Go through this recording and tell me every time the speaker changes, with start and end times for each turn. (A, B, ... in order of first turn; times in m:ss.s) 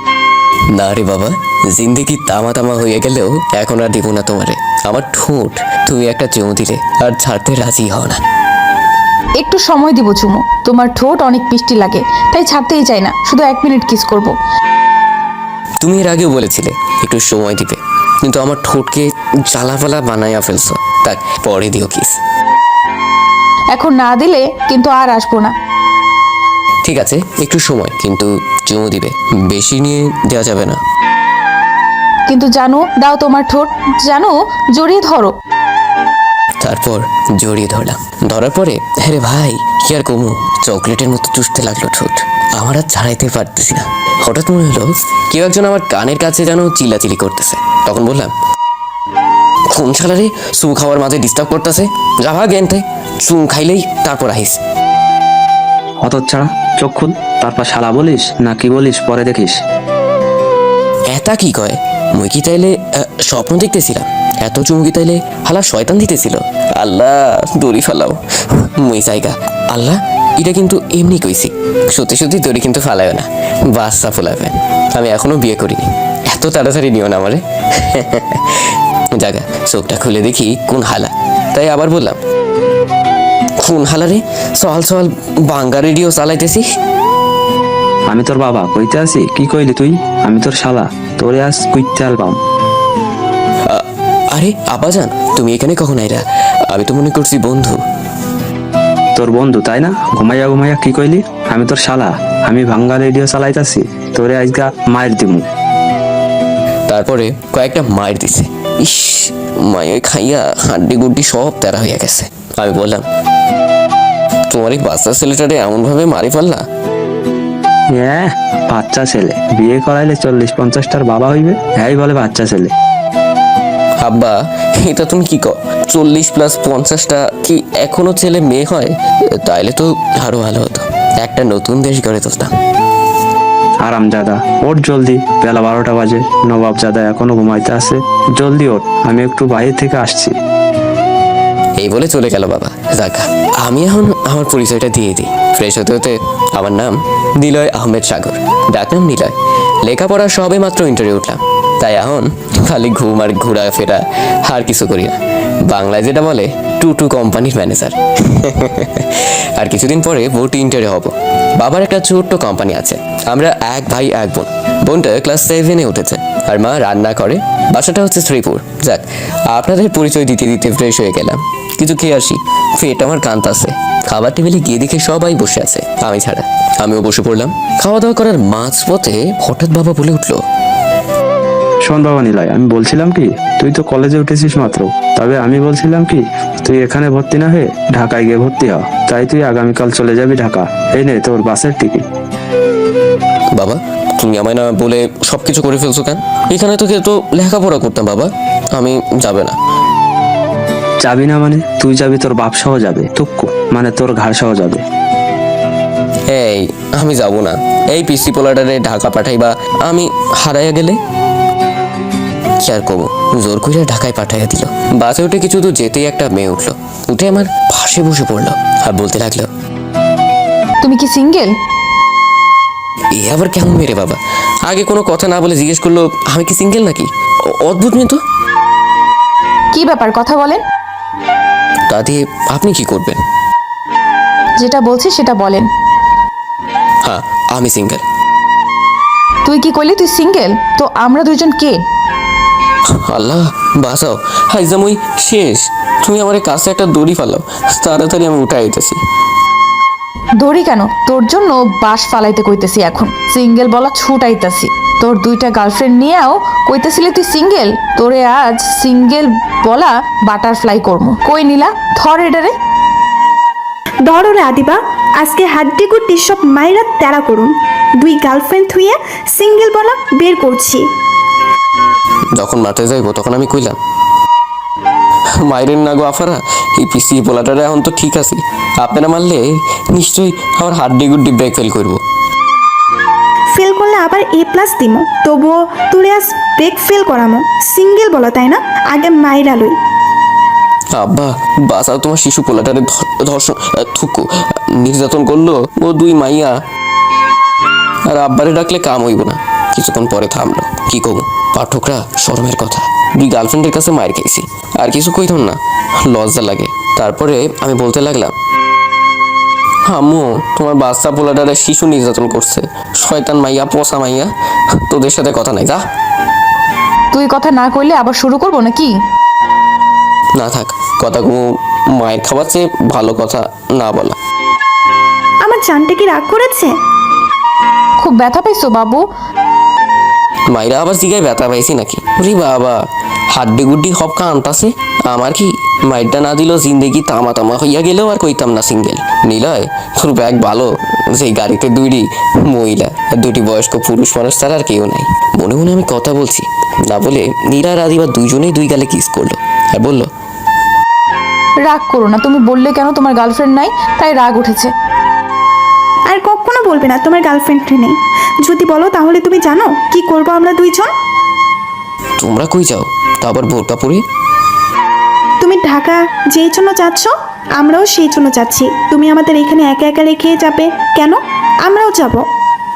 0:00.7-0:08.2 A
0:09.4-0:14.3 B
0:15.8-0:22.2 A
0:23.7-0:25.5 B
0:26.8-0:30.8 A
0:32.3-0:35.3 B
0:36.6-0:48.3 A
0:49.7-0:54.6 A
0:56.0-0:59.6 C
1:01.1-1:08.2 A
1:08.8-1:22.2 A
1:23.6-1:26.6 A
1:28.1-1:32.4 C
1:33.7-1:37.8 A
1:39.2-1:45.4 C
1:46.9-1:53.0 A
1:54.5-1:56.6 A
1:57.9-2:02.7 C
2:04.0-2:12.5 A
2:13.8-2:20.3 C
2:21.8-3:00.4 A
3:01.8-3:12.0 C
3:13.5-3:19.6 A
3:21.0-3:24.8 C
3:26.3-3:31.0 A
3:32.6-3:39.5 A
3:40.8-3:41.5 B
3:43.1-3:48.2 A
3:49.7-3:50.6 B
3:51.9-3:53.2 A
3:54.6-3:55.7 B
3:57.0-3:58.0 A
3:59.4-4:01.8 B
4:02.9-4:09.0 A
4:10.4-4:22.6 B
4:24.0-4:30.9 D
4:32.3-4:33.8 A
4:35.4-4:42.0 A
4:43.5-4:49.8 D
4:50.9-4:56.6 A
4:58.1-5:08.3 A
5:09.8-5:14.3 A
5:14.9-5:15.8 A
5:17.1-5:19.0 B
5:20.3-5:24.2 A
5:25.4-5:26.8 D
5:28.0-5:29.0 B
5:30.5-5:32.8 A
5:33.3-5:50.1 A
5:51.6-5:54.7 B
5:56.1-6:00.9 D
6:02.2-6:04.0 A
6:05.4-6:12.3 D